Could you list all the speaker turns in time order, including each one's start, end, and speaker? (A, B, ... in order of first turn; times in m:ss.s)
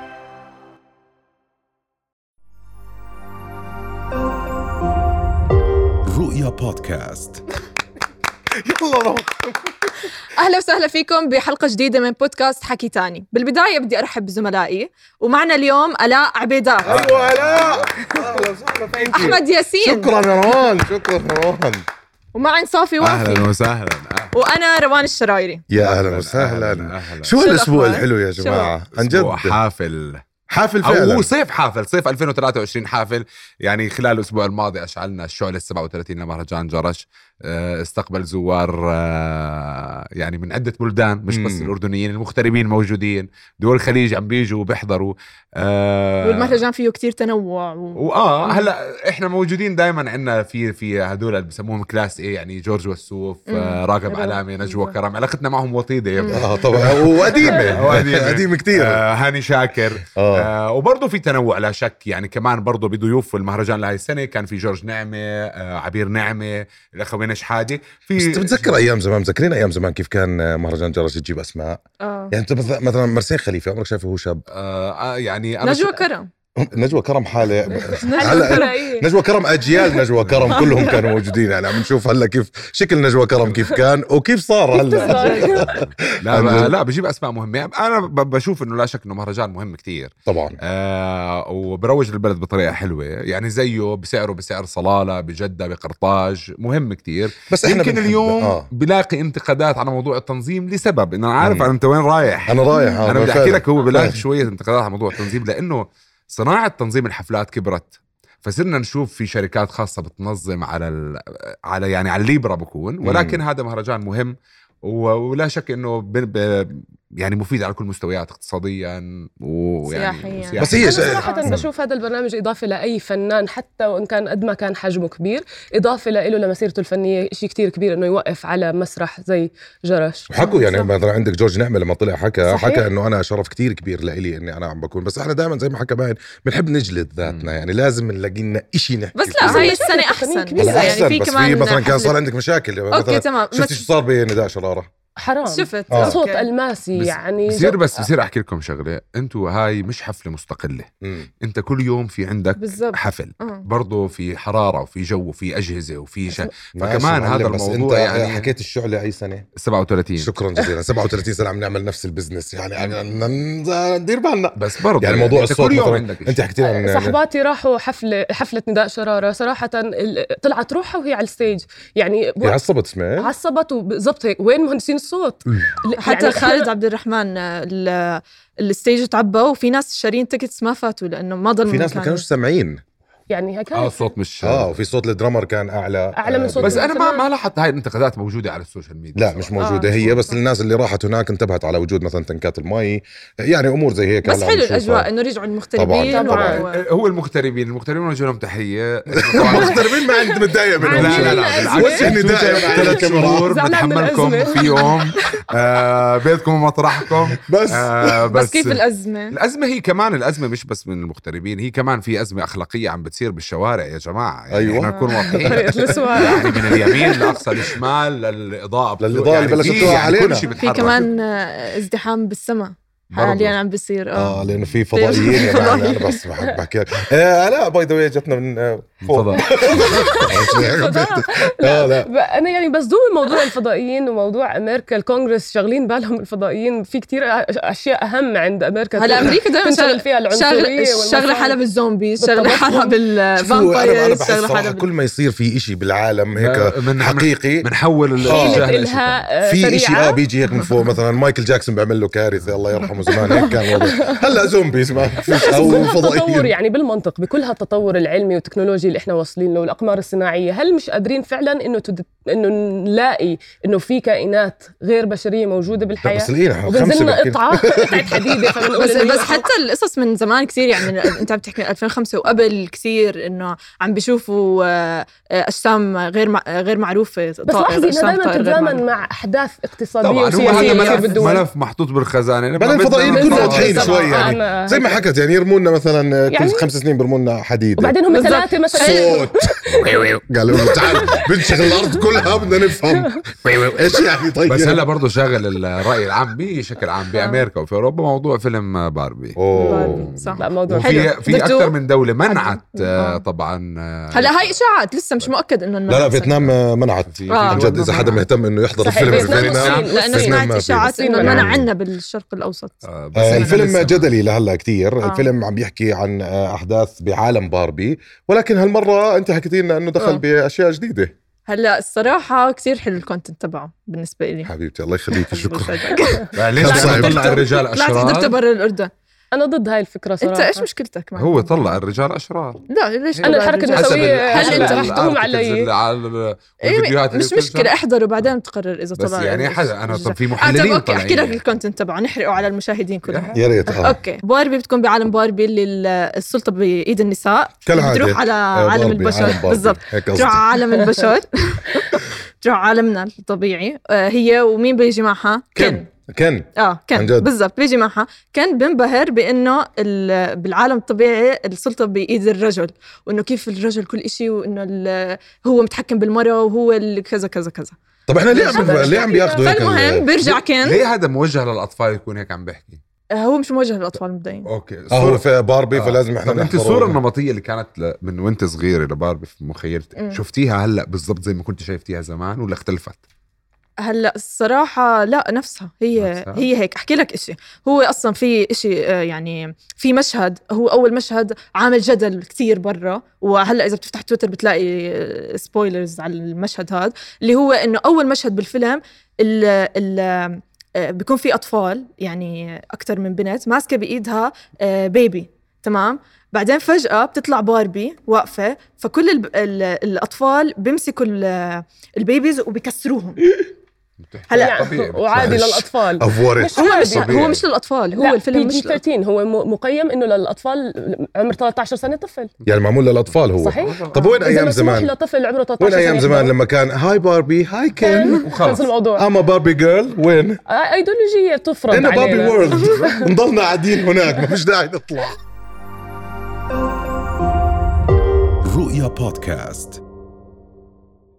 0:06.0-0:07.4 A
0:08.6-0:09.7 A
0:10.4-0:17.0 B
0:16.8-0:18.0 C
0:16.8-0:21.8 A
0:19.0-0:20.1 B
0:22.3-0:23.5 B
0:23.0-0:24.3 C
0:24.3-0:25.6 B
0:25.7-0:29.6 A
0:25.7-0:27.4 C
0:27.4-0:28.7 B
0:28.9-0:30.2 C
0:30.5-0:31.3 A
0:30.8-0:46.6 C
0:41.3-0:41.7 A
0:46.2-0:48.7 B
0:48.0-1:08.8 C
0:53.5-0:53.8 B
0:54.1-0:55.0 D
0:56.2-0:56.5 B
0:56.3-0:59.0 A
1:00.1-1:00.5 A
1:08.2-1:11.8 A
1:12.0-1:12.3 B
1:12.3-1:14.4 A
1:14.5-1:16.0 C
1:15.6-1:16.3 B
1:16.6-1:26.7 A
1:17.9-1:19.0 D
1:18.0-1:18.7 B
1:20.2-1:20.7 C
1:20.5-1:21.0 B
1:24.7-1:25.8 D
1:25.0-1:25.6 B
1:26.2-1:30.1 C
1:30.3-1:30.6 A
1:30.6-1:54.3 C
1:37.5-1:38.7 A
1:41.4-1:41.7 A
1:42.5-1:44.2 A
1:42.7-1:43.0 B
1:53.0-1:53.4 A
1:54.8-2:01.0 C
1:59.9-2:01.5 B
2:00.6-2:01.7 A
2:00.6-2:10.3 D
2:10.3-2:19.8 A
2:10.4-2:10.9 B
2:12.4-2:12.9 D
2:17.2-2:17.5 C
2:19.1-2:22.2 B
2:19.4-2:21.1 D
2:20.6-2:24.9 A
2:22.9-2:23.8 B
2:25.2-2:28.1 D
2:25.4-2:26.5 B
2:25.9-2:26.2 A
2:26.9-2:30.9 C
2:31.0-2:31.3 A
2:31.4-2:38.5 C
2:32.6-2:33.6 B
2:36.7-2:39.5 A
2:39.6-2:40.3 C
2:40.2-2:47.2 A
2:44.6-2:46.5 C
2:46.6-2:52.6 D
2:52.4-2:53.3 A
2:53.2-2:56.7 D
2:56.0-3:02.2 B
3:01.7-3:02.8 A
3:03.3-3:04.1 D
3:03.7-3:04.8 C
3:04.4-3:06.8 A
3:06.2-3:07.2 D
3:06.6-3:10.3 C
3:09.2-3:15.1 A
3:14.2-3:16.8 B
3:15.8-3:16.6 A
3:16.1-3:16.6 D
3:16.7-3:19.9 C
3:19.3-3:23.5 A
3:19.4-3:25.0 D
3:20.8-3:41.1 C
3:27.4-3:28.1 A
3:28.3-3:29.4 B
3:34.5-3:37.2 A
3:34.8-3:35.2 B
3:35.4-3:37.4 D
3:39.0-3:40.9 A
3:40.4-3:44.4 B
3:43.1-3:43.6 C
3:44.2-3:52.1 A
3:44.3-3:44.8 C
3:44.9-3:46.2 B
3:49.0-3:49.5 C
3:49.7-4:01.6 D
3:50.0-3:51.0 B
3:59.0-4:04.8 B
4:02.2-4:03.0 D
4:03.4-4:08.7 A
4:06.4-4:09.2 C
4:08.2-4:10.2 D
4:09.4-4:16.5 A
4:13.3-4:13.6 B
4:13.3-4:14.2 D
4:15.3-4:29.5 D
4:26.0-4:28.7 A
4:28.8-4:38.8 B
4:37.5-4:41.5 D
4:40.0-4:44.0 C
4:40.4-4:41.2 B
4:42.6-4:48.0 A
4:43.0-4:45.0 D
4:43.5-4:44.4 B
4:46.3-4:46.7 D
4:47.8-4:50.0 D
4:48.1-4:49.2 B
4:48.7-4:54.8 A
4:50.5-4:51.9 D
4:54.4-5:04.6 C
4:57.1-4:57.4 B
4:59.4-5:00.1 A
4:59.5-5:01.7 B
5:00.4-5:01.1 D
5:02.3-5:03.2 B
5:04.1-5:06.5 B
5:05.9-5:11.7 A
5:07.0-5:08.2 C
5:07.3-5:08.0 B
5:08.8-5:11.5 D
5:08.8-5:09.9 C
5:09.7-5:13.6 B
5:12.8-5:14.1 C
5:13.2-5:21.1 A
5:15.0-5:15.3 B
5:21.5-5:24.5 B
5:24.4-5:26.0 A
5:25.1-5:28.9 B
5:26.3-5:28.4 C
5:26.5-5:27.4 A
5:29.3-5:30.7 D
5:30.2-5:31.8 B
5:31.2-5:32.6 C
5:32.7-5:35.1 B
5:33.2-5:37.7 C
5:33.2-5:35.7 D
5:36.6-5:55.8 B
5:39.0-5:41.4 C
5:43.0-5:43.4 C
5:43.3-5:44.0 A
5:47.6-5:50.6 A
5:55.5-5:57.3 A
5:56.6-6:07.7 B
6:08.1-6:10.1 A
6:08.3-6:09.5 D
6:08.4-6:10.8 B
6:10.2-6:12.8 C
6:13.1-6:14.5 B
6:14.5-6:23.0 C
6:14.9-6:17.0 A
6:23.8-6:53.2 B
6:26.0-6:26.4 C
6:54.0-6:55.5 C
6:54.3-6:54.6 B
6:54.4-6:57.2 D
6:55.1-6:57.4 A
6:56.5-6:58.8 B
6:57.9-7:02.3 D
7:02.4-7:04.9 A
7:03.4-7:06.3 D
7:03.6-7:04.2 C
7:05.6-7:08.2 A
7:07.8-7:09.1 D
7:08.1-7:08.7 C
7:09.0-7:10.4 A
7:10.5-7:12.9 D
7:11.7-7:15.2 A
7:12.6-7:13.1 C
7:18.4-7:19.8 A